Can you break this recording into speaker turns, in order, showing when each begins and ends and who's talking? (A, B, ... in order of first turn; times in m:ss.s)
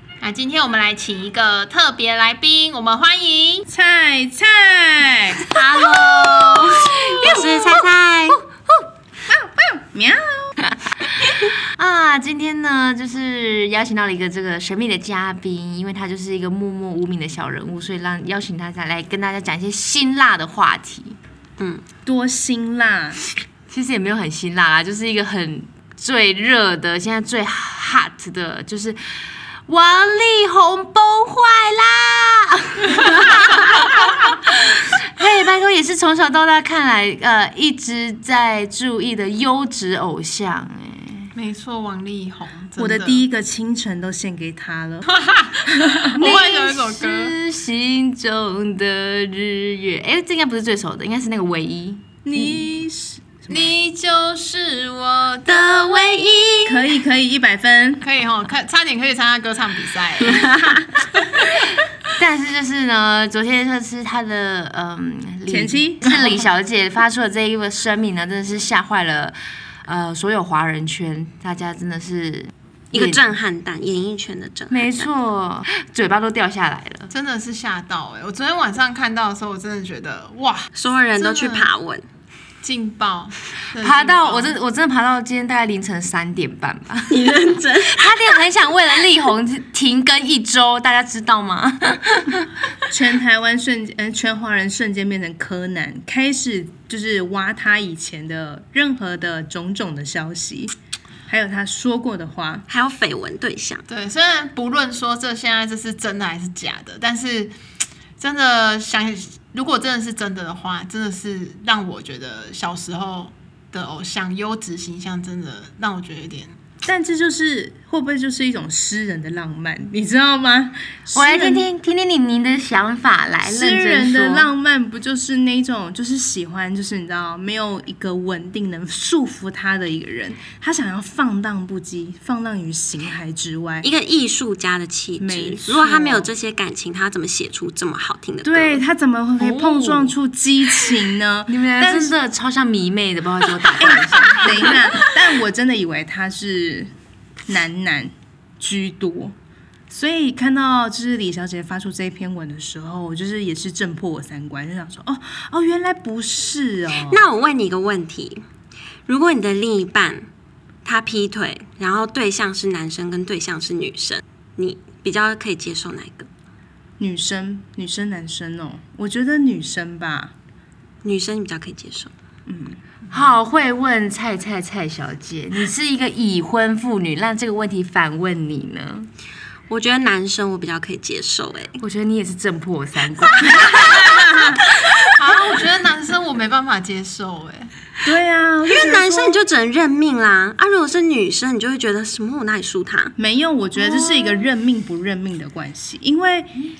0:00.2-0:03.6 A
0:03.7-0:05.4 B
0:05.5-0:07.3 A
0:05.8-0:08.7 C
0:07.2-0:08.4 D
0:09.3-0:10.5 B
0:10.6-0:21.2 C
0:22.0-0:23.2 B
0:23.7-0:41.3 C
0:41.3-0:43.2 A
0:42.8-0:46.3 B
0:45.1-0:47.3 A
0:46.2-0:52.6 C
0:52.2-0:53.7 B
0:53.5-0:55.7 A
0:55.5-0:56.9 C
0:56.6-0:58.0 B
0:58.0-1:00.8 A
1:00.3-1:00.8 D
1:02.1-1:13.2 C
1:05.5-1:06.5 B
1:12.9-1:15.1 D
1:14.7-1:17.1 C
1:17.1-1:21.7 A
1:20.8-1:22.0 D
1:22.6-1:24.6 A
1:23.8-1:27.3 C
1:27.1-1:28.1 D
1:27.9-1:32.5 C
1:32.9-1:40.7 B
1:41.3-1:42.6 B
1:42.7-1:43.8 D
1:43.9-1:47.5 A
1:48.2-1:56.5 A
1:56.8-2:01.6 B
2:01.1-2:04.5 C
2:03.4-2:13.9 B
2:13.8-2:18.8 D
2:15.2-2:16.3 B
2:18.4-2:22.1 B
2:19.4-2:20.1 C
2:21.5-2:24.8 C
2:23.8-2:26.9 B
2:27.5-2:29.3 B
2:29.9-2:37.2 B
2:37.0-2:38.4 D
2:39.1-2:40.3 D
2:40.8-2:46.3 D
2:47.0-2:50.3 B
2:51.0-2:52.1 D
2:52.5-2:52.8 B
2:53.1-2:59.1 C
2:59.7-3:01.8 D
3:01.8-3:04.6 C
3:03.5-3:04.1 D
3:05.1-3:07.7 A
3:08.0-3:09.4 B
3:08.7-3:13.1 D
3:13.2-3:16.5 B
3:13.9-3:14.4 C